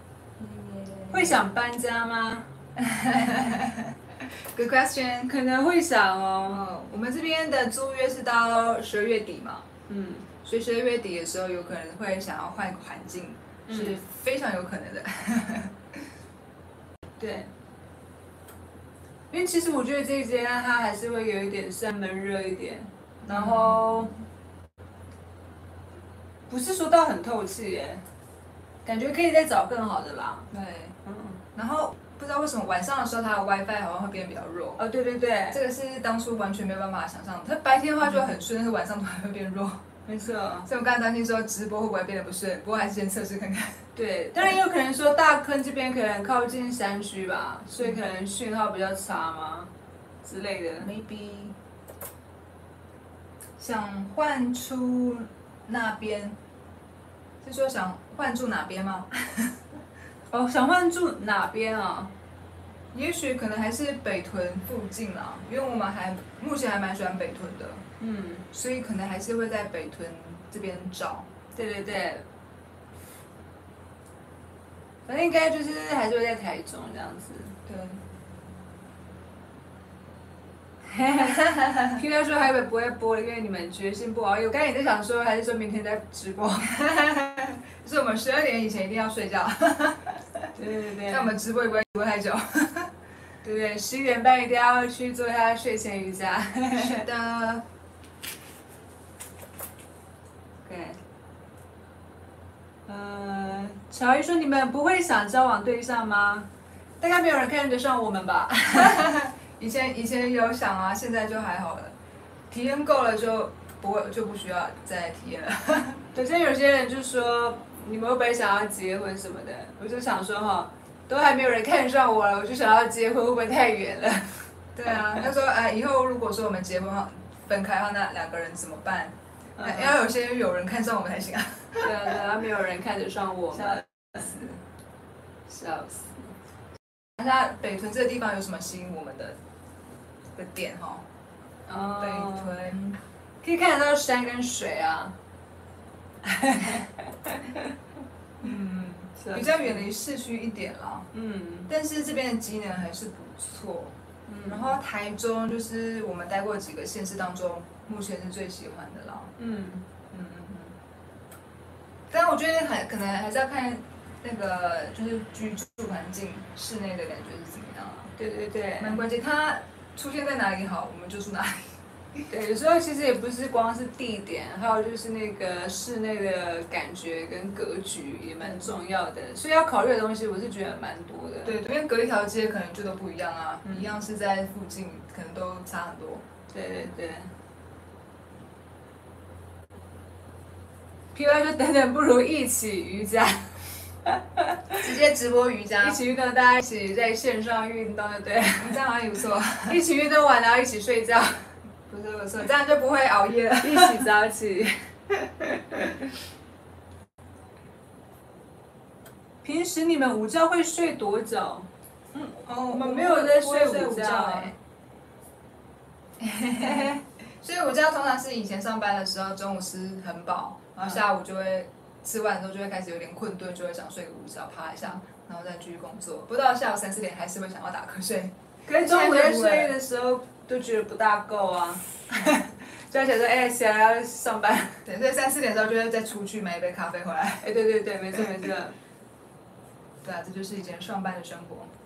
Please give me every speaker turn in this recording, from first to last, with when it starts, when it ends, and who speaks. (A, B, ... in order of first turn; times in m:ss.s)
0:00.4-0:01.4 A
0:01.1-0:02.5 B
0:02.8-0:04.0 A
0:04.5-0:05.3 A
0:05.3-0:06.6 B
0:06.5-0:09.7 A
0:09.9-0:10.3 B
0:10.4-0:15.8 A
0:13.7-0:14.0 B
0:17.2-0:17.5 B
0:19.3-0:24.1 B
0:23.3-0:24.1 A
0:26.5-0:28.0 B
0:28.8-0:30.5 B
0:30.5-0:31.0 A
0:31.0-0:31.4 B
0:31.5-0:34.8 A
0:34.8-0:35.6 B
0:35.5-0:39.8 A
0:40.0-0:40.7 B
0:40.6-0:43.8 A
0:43.9-0:49.7 B
0:50.2-0:50.9 B
0:50.8-0:51.5 A
0:53.6-0:56.4 A
0:57.4-0:59.5 A
1:00.3-1:02.1 B
1:02.9-1:07.8 A
1:08.0-1:08.4 B
1:08.5-1:11.3 A
1:11.5-1:12.2 B
1:15.0-1:17.6 B
1:17.6-1:18.0 A
1:20.8-1:26.7 B
1:21.2-1:22.0 A
1:26.7-1:30.5 A
1:30.6-1:31.3 B
1:31.1-1:32.9 A
1:33.4-1:37.0 B
1:36.7-1:37.6 A
1:40.6-1:41.0 B
1:42.8-1:49.1 B
1:48.7-1:51.9 A
1:52.5-1:56.0 A
1:56.1-2:05.3 B
2:04.8-2:12.2 A
2:09.6-2:10.0 B
2:11.8-2:14.4 B
2:14.2-2:14.6 A
2:15.5-2:16.3 B
2:17.2-2:19.4 A
2:20.4-2:21.0 A
2:21.6-2:22.5 B
2:21.8-2:23.0 A
2:23.4-2:25.2 B
2:26.2-2:27.7 B
2:28.4-2:31.1 A
2:29.2-2:29.8 B
2:31.1-2:31.7 B
2:31.7-2:39.3 A
2:34.3-2:34.7 B
2:39.4-2:39.8 B
2:40.1-2:40.7 A
2:42.1-2:48.1 A
2:48.2-2:49.0 B
2:48.8-2:52.3 A
2:52.3-3:01.5 B
2:58.4-2:58.7 A
3:01.4-3:06.2 A
3:03.6-3:03.9 B
3:06.5-3:07.3 B
3:11.1-3:14.9 B
3:14.8-3:16.0 A
3:15.8-3:18.8 B
3:18.6-3:19.8 A
3:19.7-3:21.3 B
3:21.9-3:24.0 A
3:23.6-3:24.7 B
3:25.2-3:25.9 A
3:29.4-3:31.7 B
3:32.2-3:34.5 A
3:32.6-3:34.6 B
3:36.2-3:49.7 A
3:48.7-3:54.8 B
3:54.8-3:57.5 A
3:57.4-3:58.7 B
4:00.0-4:01.7 A